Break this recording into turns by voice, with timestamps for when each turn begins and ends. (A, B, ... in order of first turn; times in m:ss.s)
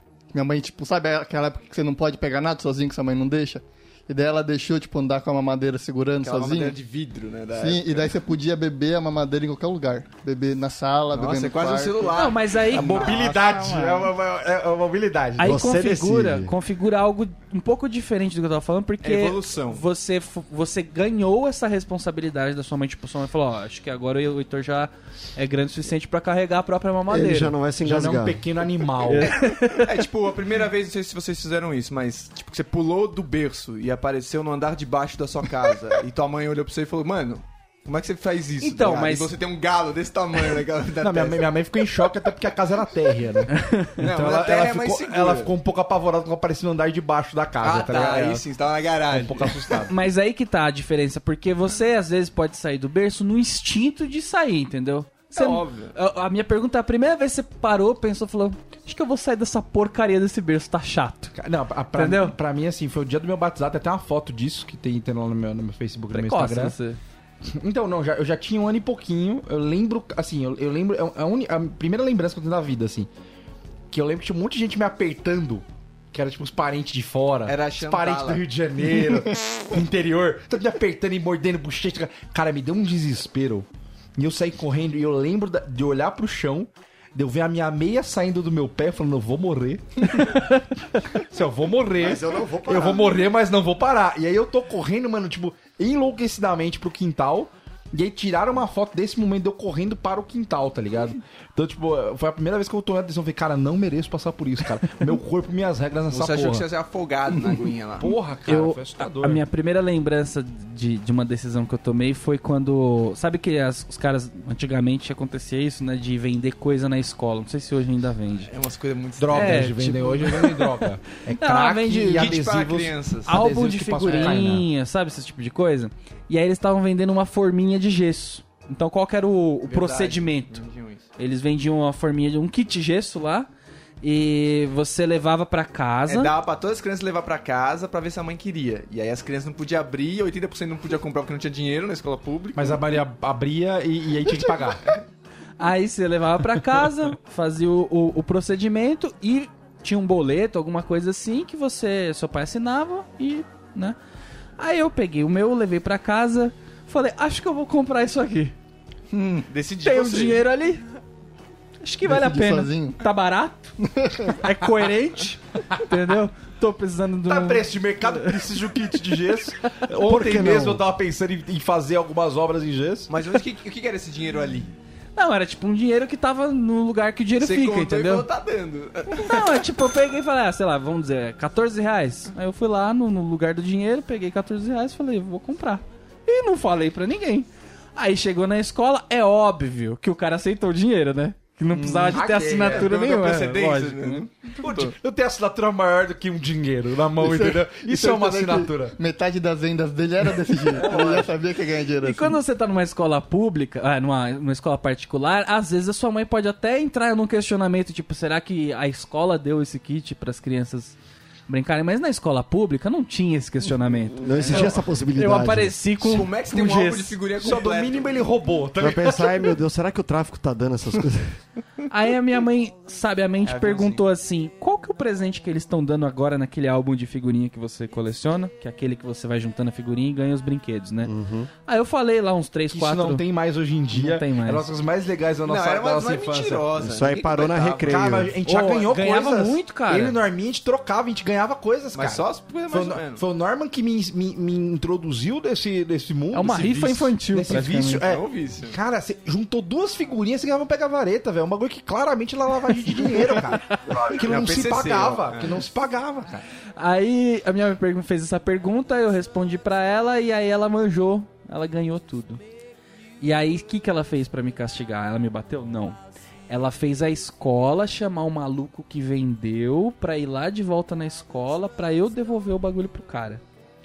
0:00.3-0:06.8 A
0:06.2-0:08.1 B
0:07.5-0:12.3 A
0:11.1-0:13.5 B
0:12.1-0:13.0 C
0:12.7-0:15.6 D
0:12.8-0:13.9 A
0:15.4-0:27.5 C
0:15.4-0:16.5 E
0:19.0-0:19.8 B
0:27.1-0:28.4 E
0:27.8-0:29.4 D
0:29.0-0:29.9 C
0:29.3-0:41.5 B
0:38.6-0:39.3 C
0:41.0-0:48.4 D
0:43.5-0:44.0 C
0:44.0-0:45.5 B
0:47.6-0:49.8 B
0:49.1-0:50.0 D
0:49.9-1:01.3 C
0:55.3-0:55.9 B
1:01.3-1:06.8 D
1:01.9-1:02.4 C
1:06.1-1:07.0 C
1:07.4-1:13.1 D
1:13.9-1:30.6 D
1:17.4-1:18.4 B
1:31.1-1:46.6 D
1:32.0-1:33.2 E
1:46.1-1:48.2 B
1:48.0-1:49.4 D
1:48.5-1:58.5 C
1:58.4-1:59.9 B
1:59.2-2:04.7 D
1:59.3-2:00.9 C
2:01.4-2:02.3 C
2:02.0-2:03.4 B
2:03.3-2:10.6 C
2:09.7-2:11.0 B
2:11.2-2:13.5 C
2:14.0-2:16.3 C
2:16.1-2:22.8 B
2:22.5-2:24.8 D
2:25.6-2:34.0 C
2:34.6-2:38.5 C
2:39.1-2:40.4 B
2:39.8-2:40.8 C
2:41.8-2:48.4 C
2:42.0-2:43.0 A
2:43.8-2:44.4 A
2:47.2-2:53.1 D
2:50.0-2:50.8 E
2:53.1-2:54.7 B
2:55.2-2:58.3 C
2:57.4-2:59.5 B
2:59.2-3:14.2 C
3:11.7-3:12.9 D
3:12.6-3:14.9 B
3:14.6-3:19.0 D
3:17.2-3:22.4 A
3:20.7-3:21.3 D
3:22.0-3:30.9 C
3:31.5-3:37.2 C
3:34.1-3:35.8 E
3:34.2-3:34.7 B
3:36.0-3:38.2 B
3:37.4-3:39.5 D
3:38.8-3:41.4 E
3:41.9-3:51.1 C
3:43.4-3:44.0 B
3:51.0-3:51.5 E
3:51.6-3:53.2 C
3:52.7-3:56.6 D
3:53.9-3:54.6 C
3:55.4-3:58.3 B
3:56.8-3:58.3 E
3:57.8-4:16.4 D
3:58.4-4:00.2 C
4:01.9-4:03.2 B
4:06.3-4:08.0 C
4:08.0-4:08.8 B
4:13.5-4:14.0 C
4:13.9-4:15.6 B
4:16.8-4:22.4 C
4:23.2-4:26.0 C
4:26.5-4:33.4 C